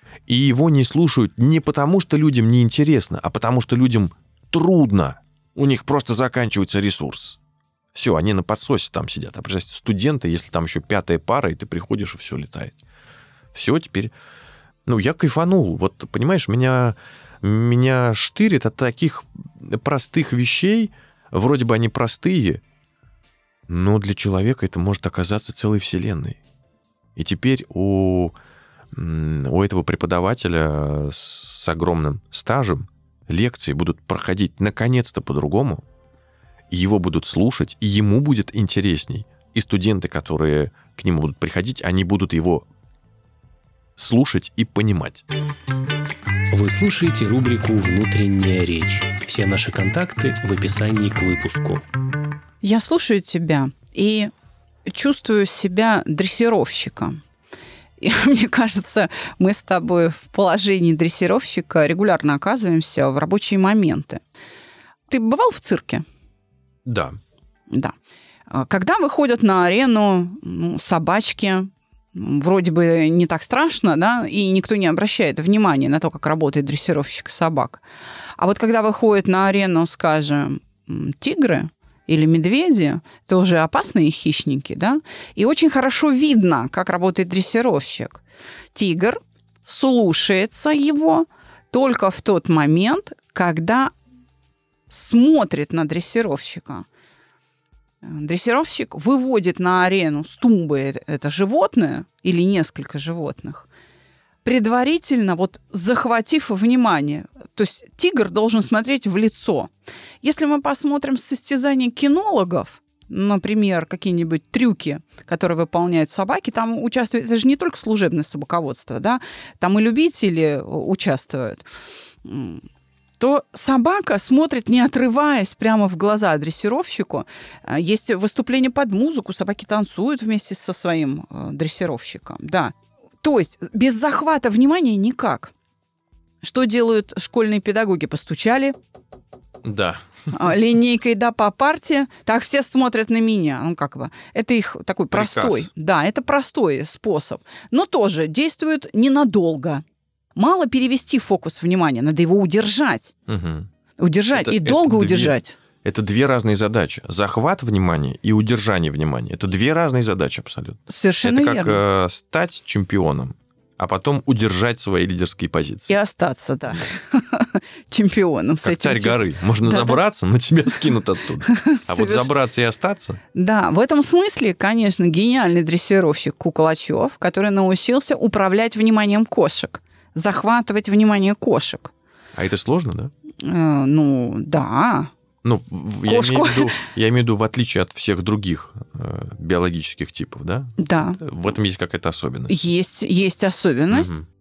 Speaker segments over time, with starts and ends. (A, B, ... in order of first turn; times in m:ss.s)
0:00.3-0:07.4 A
0:07.9-0:12.7 A
0:13.5-0:14.1 A
0:14.9-0:22.6 A
0:23.7-0:26.4 A
0:27.2-0:28.4 A
0:28.9-0:35.8 A
0:36.7-0:42.7 A
0:44.0-0:45.2 A
0:46.5-0:51.8 B
0:52.6-0:54.3 C
0:54.9-0:57.2 C
0:58.0-1:04.2 C
1:05.1-1:06.0 C
1:06.8-1:07.2 A
1:07.7-1:08.0 C
1:08.5-1:17.8 C
1:18.4-1:28.2 C
1:28.7-1:33.9 C
1:34.9-1:36.9 C
1:38.0-1:43.7 C
1:44.4-1:49.7 C
1:50.2-2:01.6 C
2:02.2-2:02.6 C
2:03.2-2:15.5 C
2:16.4-2:18.8 C
2:19.6-2:20.0 A
2:20.3-2:29.8 C
2:25.1-2:25.7 A
2:30.4-2:33.2 C
2:33.3-2:33.7 A
2:34.0-2:35.6 C
2:34.3-2:45.9 A
2:40.9-2:41.8 C
2:45.9-2:50.0 C
2:48.6-2:53.2 A
2:51.4-2:52.3 C
2:53.3-3:01.9 C
3:02.4-3:03.1 A
3:03.4-3:05.1 C
3:05.4-3:12.6 A
3:06.1-3:06.8 C
3:10.8-3:11.2 C
3:12.5-3:14.2 C
3:13.9-3:14.2 A